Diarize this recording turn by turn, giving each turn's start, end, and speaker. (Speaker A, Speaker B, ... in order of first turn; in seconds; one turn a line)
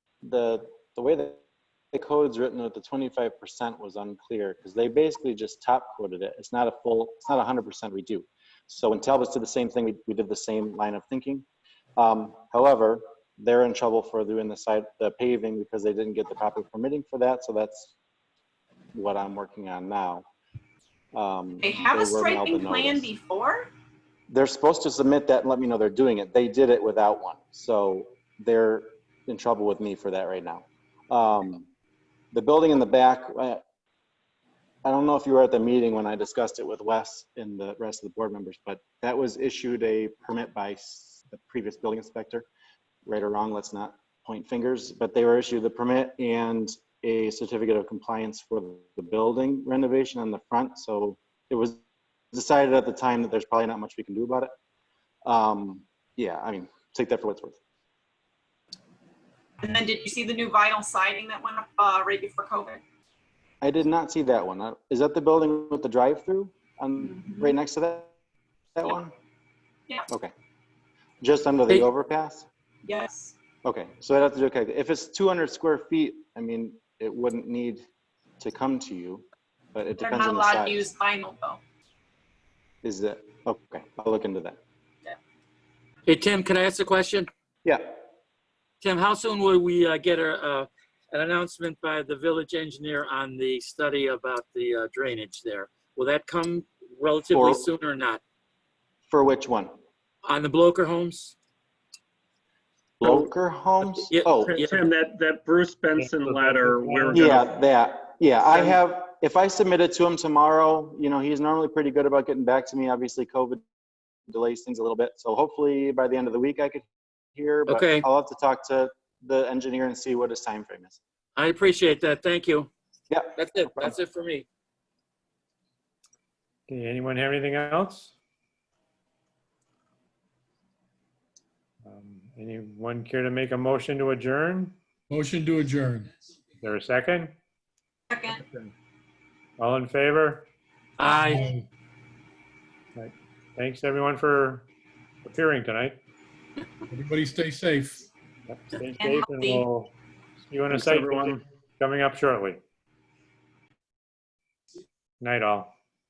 Speaker A: 0.2-1.4
Speaker A: 1.9-11.4
Speaker A: 12.0-17.9
Speaker A: 18.9-20.3
Speaker A: 21.1-23.1
Speaker B: 21.6-23.7
Speaker A: 24.3-31.7
Speaker A: 32.3-33.6
Speaker A: 34.8-42.5
Speaker A: 43.0-51.8
Speaker A: 52.3-54.5
Speaker A: 55.2-57.6
Speaker B: 59.6-62.8
Speaker A: 63.6-68.1
Speaker B: 67.0-67.5
Speaker A: 68.7-69.1
Speaker A: 71.2-72.5
Speaker B: 72.8-73.3
Speaker A: 73.6-77.8
Speaker A: 78.4-80.9
Speaker B: 80.0-81.6
Speaker A: 82.8-84.6
Speaker C: 86.0-87.3
Speaker A: 87.6-88.0
Speaker C: 88.8-98.2
Speaker A: 97.3-97.6
Speaker A: 99.1-99.7
Speaker C: 100.2-101.3
Speaker A: 103.0-104.6
Speaker C: 103.9-104.8
Speaker D: 104.4-107.6
Speaker E: 106.0-107.2
Speaker A: 107.1-113.6
Speaker A: 114.3-121.0
Speaker C: 117.7-118.0
Speaker C: 121.4-122.7
Speaker A: 123.1-123.9
Speaker C: 123.3-124.5
Speaker E: 126.7-128.1
Speaker E: 131.8-134.8
Speaker F: 135.1-136.1
Speaker E: 136.6-137.4
Speaker B: 138.1-138.4
Speaker E: 139.6-140.5
Speaker C: 141.0-141.4
Speaker F: 141.3-141.7
Speaker E: 143.0-144.7
Speaker E: 145.2-146.0
Speaker F: 146.9-148.0
Speaker E: 148.5-152.6
Speaker B: 149.0-149.7
Speaker D: 150.7-151.4
Speaker E: 155.2-155.7